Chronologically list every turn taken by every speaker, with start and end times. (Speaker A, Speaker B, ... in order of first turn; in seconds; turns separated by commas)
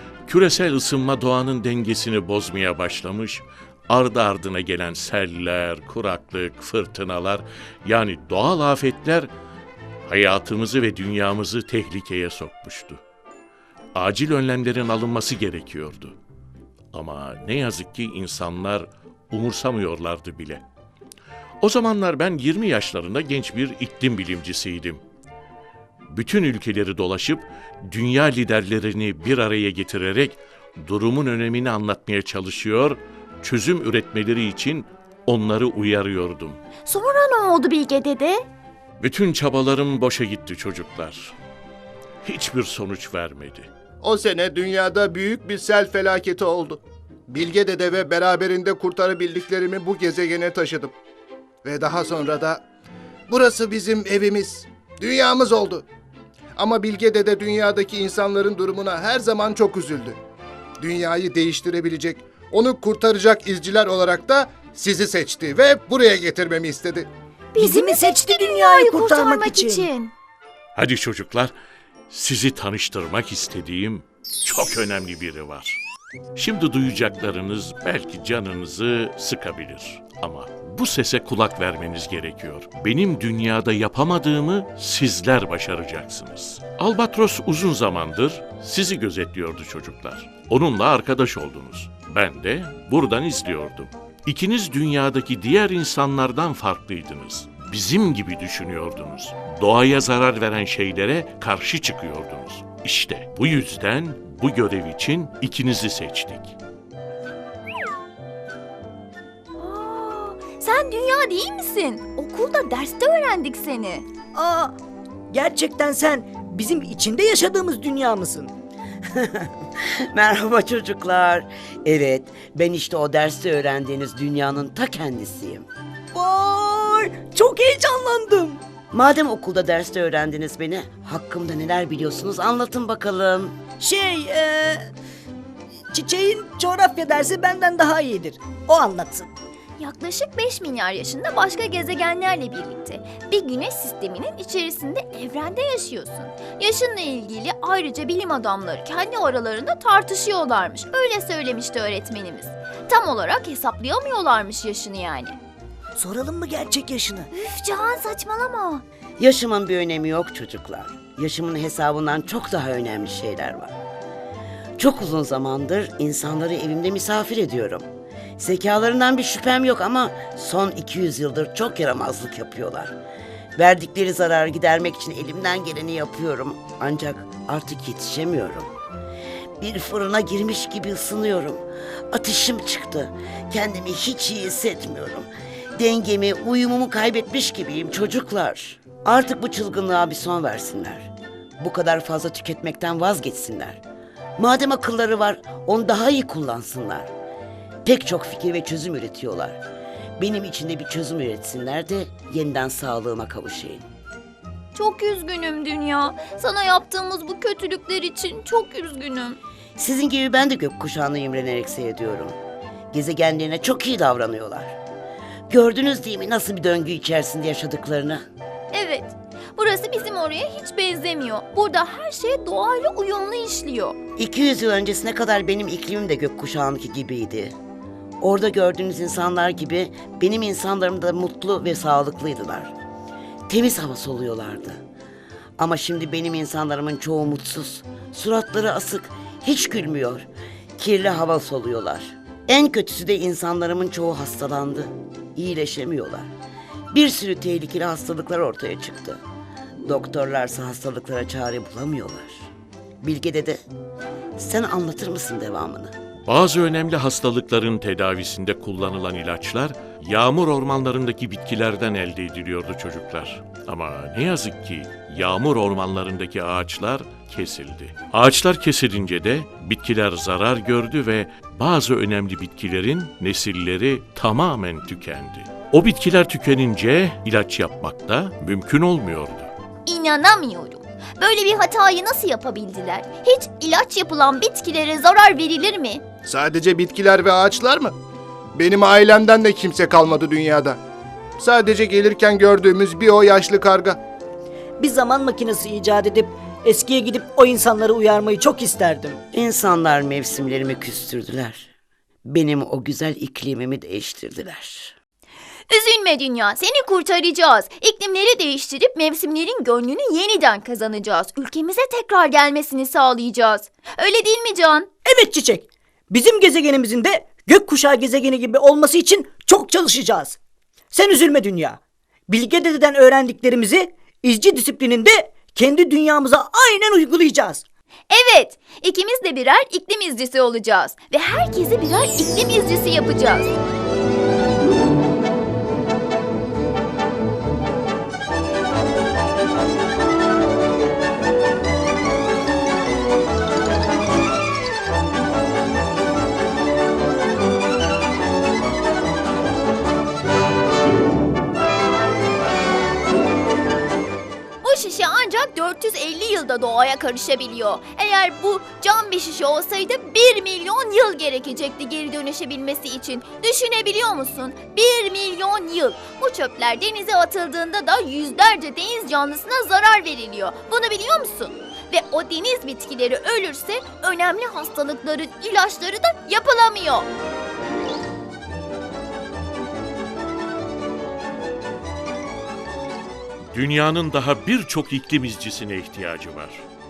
Speaker A: 0.3-9.3, Speaker A: 10.1-13.0, Speaker A: 13.9-16.1, Speaker A: 16.9-20.6, Speaker A: 21.6-25.0, Speaker A: 26.1-36.6, Speaker B: 36.8-38.5, Speaker A: 39.0-41.4, Speaker A: 42.2-43.7, Speaker C: 44.0-50.9, Speaker C: 51.6-52.6, Speaker C: 53.3-55.9, Speaker C: 56.5-60.2, Speaker C: 60.8-67.1, Speaker B: 67.5-70.1, Speaker D: 67.6-69.9, Speaker A: 70.7-71.5, Speaker A: 72.1-75.8, Speaker A: 76.3-106.5, Speaker B: 109.6-114.0, Speaker D: 114.3-114.7, Speaker D: 115.3-118.5, Speaker E: 119.1-119.5, Speaker E: 120.1-125.7, Speaker D: 126.1-128.6, Speaker E: 128.9-133.6, Speaker D: 133.8-134.9, Speaker D: 135.9-139.3, Speaker B: 139.8-155.4, Speaker D: 155.9-157.3, Speaker B: 157.3-158.8, Speaker E: 159.2-163.7, Speaker E: 164.8-167.8, Speaker E: 168.4-172.9, Speaker E: 173.6-178.7, Speaker E: 179.6-193.8, Speaker E: 194.4-197.1, Speaker E: 197.8-199.6, Speaker E: 200.2-203.8, Speaker B: 204.7-209.4, Speaker E: 209.8-212.3, Speaker E: 212.9-214.8, Speaker E: 215.5-218.2, Speaker B: 218.7-224.0, Speaker E: 224.2-227.5, Speaker E: 228.2-232.7, Speaker E: 233.5-234.8, Speaker E: 235.6-240.2, Speaker E: 240.8-246.3, Speaker E: 246.9-249.2, Speaker E: 249.8-252.5, Speaker E: 253.0-253.6, Speaker E: 254.4-255.9, Speaker A: 256.2-279.5, Speaker B: 279.9-286.0, Speaker C: 286.2-287.9, Speaker C: 288.5-290.8, Speaker C: 291.4-294.0, Speaker D: 294.8-299.2, Speaker E: 299.3-301.7, Speaker E: 302.2-304.9, Speaker B: 305.7-314.9, Speaker D: 315.0-320.4, Speaker D: 320.9-327.6, Speaker B: 328.1-333.5, Speaker B: 354.6-377.1, Speaker A: 383.5-386.6